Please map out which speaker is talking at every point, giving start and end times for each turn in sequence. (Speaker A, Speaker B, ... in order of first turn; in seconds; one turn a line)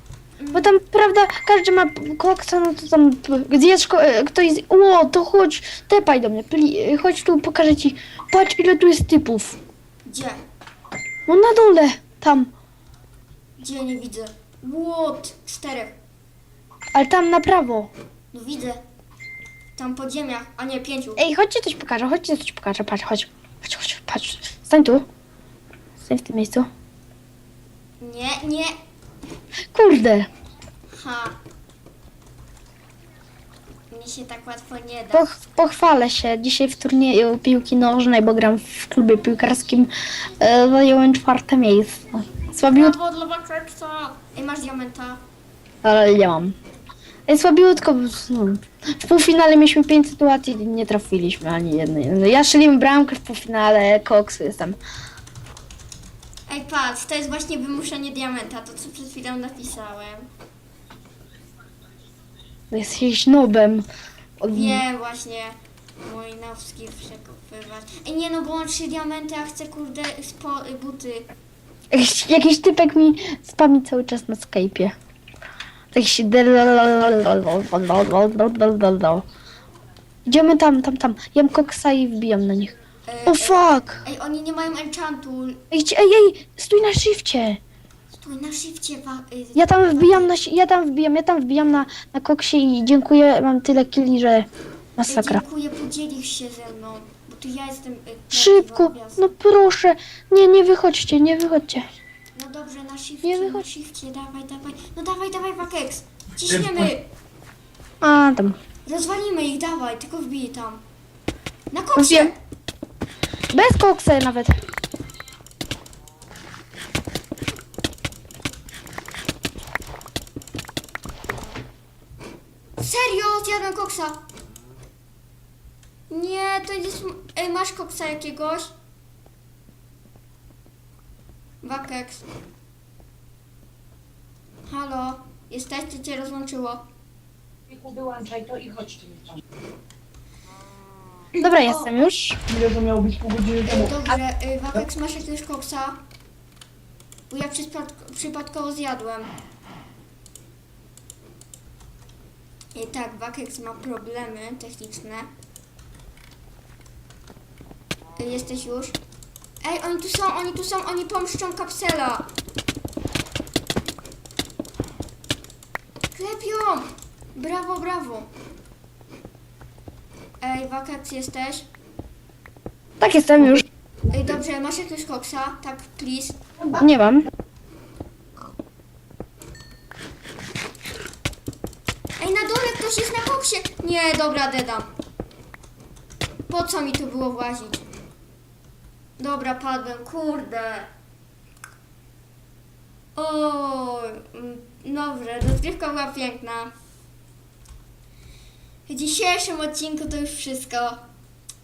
Speaker A: 0.4-0.8
Speaker B: 0.5-9.6
Speaker A: 10.1-10.4
Speaker B: 11.3-12.5
Speaker A: 13.6-15.9
Speaker B: 16.9-17.9
Speaker A: 18.3-18.8
Speaker A: 19.8-21.3
Speaker B: 21.2-25.1
Speaker B: 26.0-26.7
Speaker A: 28.0-28.8
Speaker B: 29.7-30.3
Speaker A: 30.9-31.4
Speaker A: 33.9-35.4
Speaker B: 35.1-43.0
Speaker A: 42.6-45.2
Speaker B: 45.8-46.5
Speaker B: 47.3-54.8
Speaker A: 56.5-60.3
Speaker B: 62.7-63.9
Speaker B: 64.4-64.8
Speaker A: 64.5-71.3
Speaker B: 71.9-74.9
Speaker B: 75.9-79.2
Speaker B: 80.3-82.8
Speaker A: 83.1-85.6
Speaker B: 83.3-84.0
Speaker B: 85.7-87.6
Speaker A: 88.1-90.3
Speaker B: 89.5-94.5
Speaker B: 95.0-95.4
Speaker A: 95.0-99.3
Speaker B: 98.3-101.8
Speaker A: 102.3-107.1
Speaker B: 103.2-103.7
Speaker B: 108.0-108.6
Speaker A: 108.8-110.8
Speaker A: 111.7-112.3
Speaker B: 112.0-112.3
Speaker B: 113.5-114.5
Speaker A: 122.8-124.2
Speaker A: 126.1-128.7
Speaker A: 131.6-132.2
Speaker A: 134.7-136.8
Speaker C: 137.7-139.4
Speaker A: 141.3-141.9
Speaker B: 141.4-142.4
Speaker C: 142.5-143.7
Speaker A: 143.7-146.0
Speaker A: 147.3-149.3
Speaker A: 152.8-155.3
Speaker A: 158.2-159.0
Speaker A: 159.6-162.3
Speaker A: 166.1-168.3
Speaker A: 170.4-171.7
Speaker B: 173.0-173.7
Speaker A: 174.1-176.4
Speaker B: 176.7-177.3
Speaker A: 182.2-184.9
Speaker A: 186.5-187.8
Speaker A: 189.2-190.9
Speaker A: 193.2-196.7
Speaker A: 198.9-201.1